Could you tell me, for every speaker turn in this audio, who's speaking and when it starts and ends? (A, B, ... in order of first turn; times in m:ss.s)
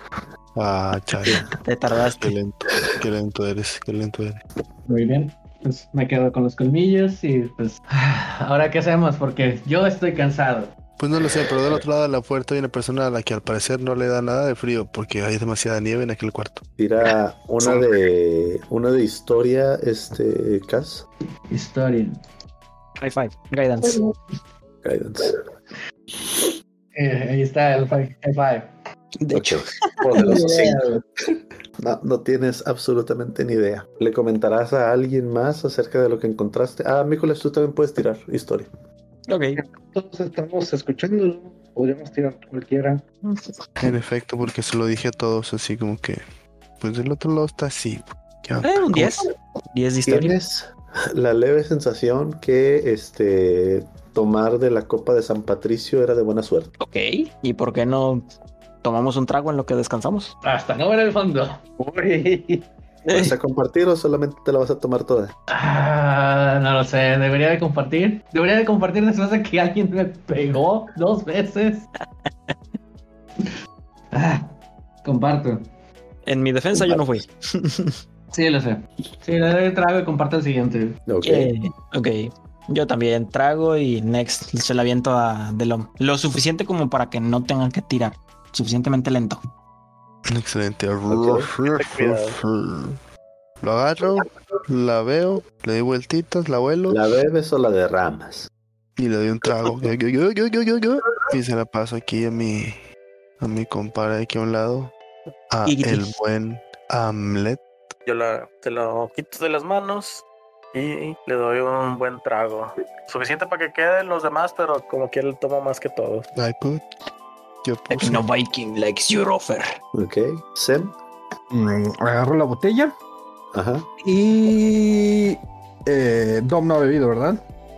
0:00.5-0:04.4 A
0:01.6-0:02.3 B
0:04.9-0:10.7 C
0:11.0-0:16.6 A
0:16.8-0:21.0 D
0:21.5-0:22.2 C
0:23.0-0:24.0 B
0:24.8-0:25.4 D
0:26.9-0:28.7 C
0:29.2-0:30.8 B
0:29.3-0:30.9 D
0:30.2-0:30.9 C
0:31.8-0:38.7 D
0:39.3-0:39.6 B
0:39.7-0:43.0 E
0:43.8-0:46.2 A
0:46.8-0:49.2 A
0:48.6-0:50.4 B
0:50.0-0:56.7 D
0:56.8-0:58.2 B
0:58.8-1:00.3 B
1:00.4-1:01.6 C
1:01.8-1:02.6 E
1:03.1-1:03.3 B
1:03.1-1:05.3 D
1:05.5-1:11.8 C
1:14.1-1:14.5 C
1:15.0-1:15.6 C
1:16.2-1:18.0 B
1:16.7-1:17.2 D
1:18.3-1:21.0 C
1:21.1-1:21.5 D
1:21.2-1:29.4 B
1:30.3-1:33.0 A
1:31.1-1:31.5 D
1:31.7-1:32.4 F
1:33.6-1:37.0 A
1:36.9-1:38.5 D
1:39.0-1:42.8 A
1:43.4-1:44.9 A
1:45.5-1:47.6 A
1:45.6-1:46.1 B
1:48.0-1:56.3 F
1:56.4-1:56.8 A
1:57.6-1:58.2 A
1:57.9-1:59.7 B
1:59.9-2:00.9 D
2:01.5-2:02.9 G
2:03.5-2:03.9 D
2:04.0-2:07.4 G